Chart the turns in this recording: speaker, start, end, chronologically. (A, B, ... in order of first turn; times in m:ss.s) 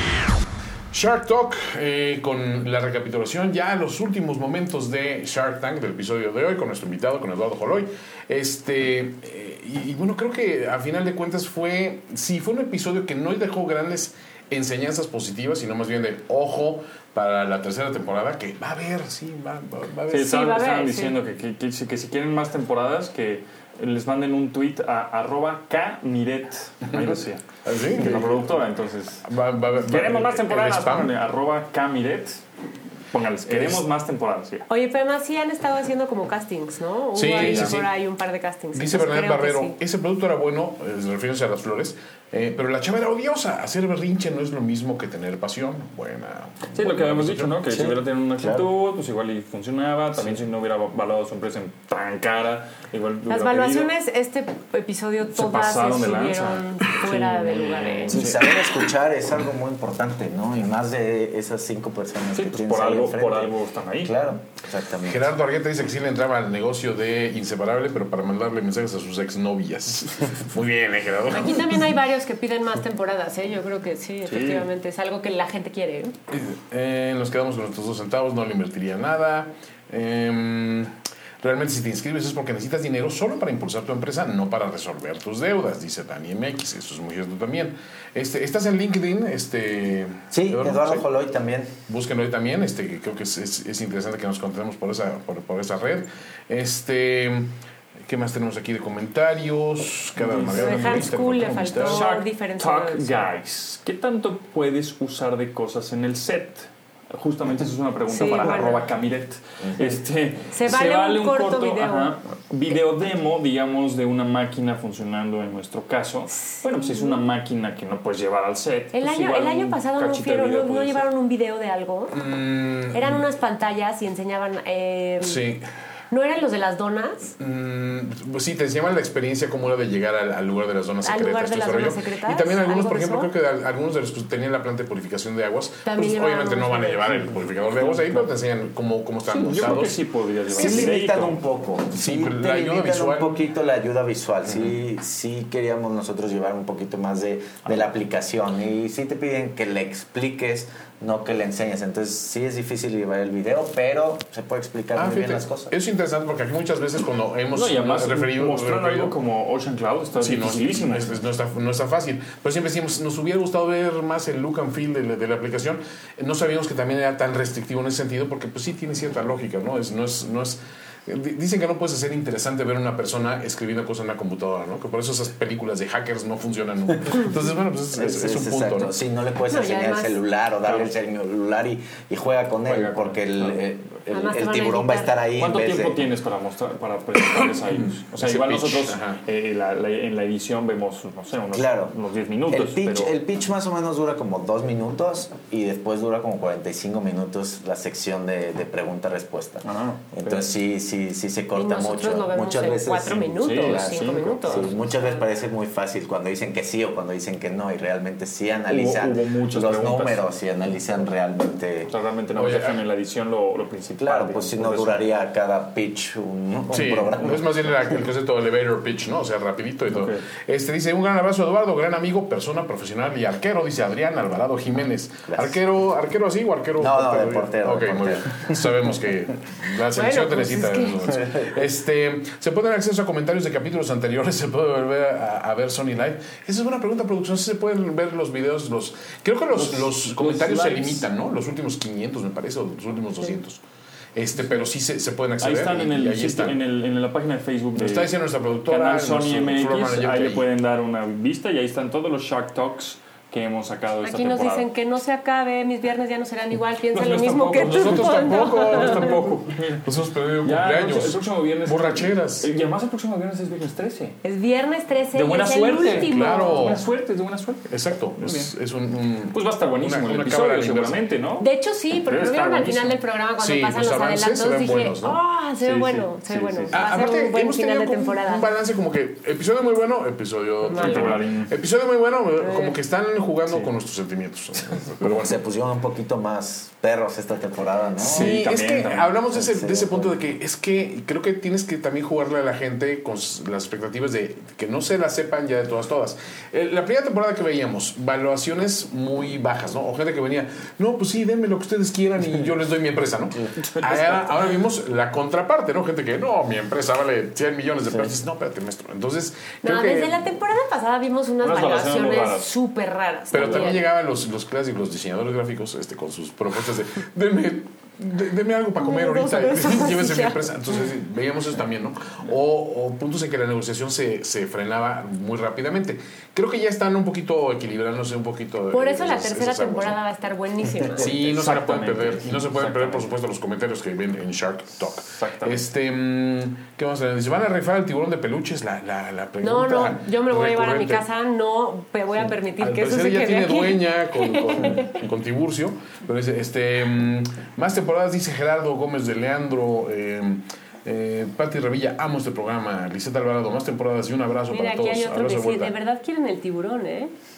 0:00.9-0:20.3 A
0:20.1-0:32.4 B
0:20.2-0:21.2 C
0:26.9-0:28.6 A
0:29.2-0:31.1 A
0:33.1-0:34.7 B
0:33.5-0:33.8 A
0:34.7-0:39.8 C
0:37.2-0:37.9 A
0:37.2-0:37.8 B
0:38.7-0:47.6 A
0:46.7-0:53.9 B
0:47.7-0:48.7 D
0:53.3-0:58.2 C
0:55.3-0:58.5 B
0:58.1-1:05.3 D
1:02.3-1:04.2 B
1:05.1-1:11.9 A
1:11.3-1:16.1 C
1:14.3-1:14.6 B
1:16.3-1:31.0 A
1:30.3-1:31.8 D
1:31.9-1:37.5 A
1:38.1-1:42.0 A
1:40.2-2:01.1 B
1:40.5-1:43.2 C
1:48.1-1:48.8 C
1:50.5-1:52.2 C
1:56.5-1:57.2 C
1:58.9-2:02.2 C
2:02.1-2:03.2 A
2:02.9-2:05.4 C
2:05.2-2:05.6 A
2:06.1-2:07.4 C
2:07.4-2:20.0 A
2:11.0-2:13.3 C
2:15.8-2:17.4 C
2:17.9-2:18.2 B
2:19.3-2:21.4 B
2:20.5-2:35.7 D
2:20.5-2:20.9 A
2:21.9-2:23.4 A
2:24.5-2:24.7 A
2:35.0-2:39.1 A
2:37.5-2:41.2 B
2:40.2-2:59.0 A
2:57.9-3:06.0 D
2:59.5-3:00.2 C
3:00.7-3:00.9 B
3:02.7-3:03.6 B
3:04.1-3:05.2 C
3:05.4-3:13.2 B
3:07.7-3:09.2 A
3:11.5-3:11.9 D
3:12.5-3:31.9 D
3:19.6-3:20.5 B
3:21.6-3:25.2 C
3:23.4-3:24.8 B
3:28.7-3:30.2 B
3:31.8-3:35.0 B
3:32.4-3:32.8 A
3:34.0-3:38.0 D
3:36.7-4:03.6 A
3:39.9-3:40.2 B
3:45.3-3:45.6 D
3:46.8-3:48.6 D
3:49.9-3:51.0 C
3:51.1-3:51.5 D
3:59.5-4:01.1 B
4:04.2-4:06.6 A
4:05.4-4:14.7 B
4:07.8-4:10.4 A
4:14.0-4:19.1 C
4:16.9-4:19.9 B
4:17.6-4:22.5 A
4:20.4-4:24.2 B
4:24.2-4:26.8 C
4:25.1-4:28.5 B
4:25.9-4:26.8 A
4:27.7-4:31.0 A
4:29.3-4:31.5 B
4:31.4-4:38.5 C
4:32.1-4:33.0 B
4:33.4-4:35.2 A
4:35.6-4:37.1 B
4:36.7-4:45.3 A
4:40.6-4:41.2 C
4:40.7-4:41.5 B
4:42.4-4:42.8 C
4:45.0-4:48.4 D
4:48.0-4:49.1 B
4:48.0-5:10.2 A
4:49.3-4:50.2 D
5:03.6-5:04.4 B
5:09.6-5:13.9 C
5:11.4-5:12.5 B
5:13.3-5:30.0 A
5:13.4-5:13.7 B
5:18.8-5:20.4 C
5:28.7-5:31.2 C
5:31.0-5:41.0 A
5:31.0-5:33.1 B
5:35.0-5:35.6 B
5:39.4-5:45.0 C
5:42.6-5:55.7 A
5:54.5-5:57.1 C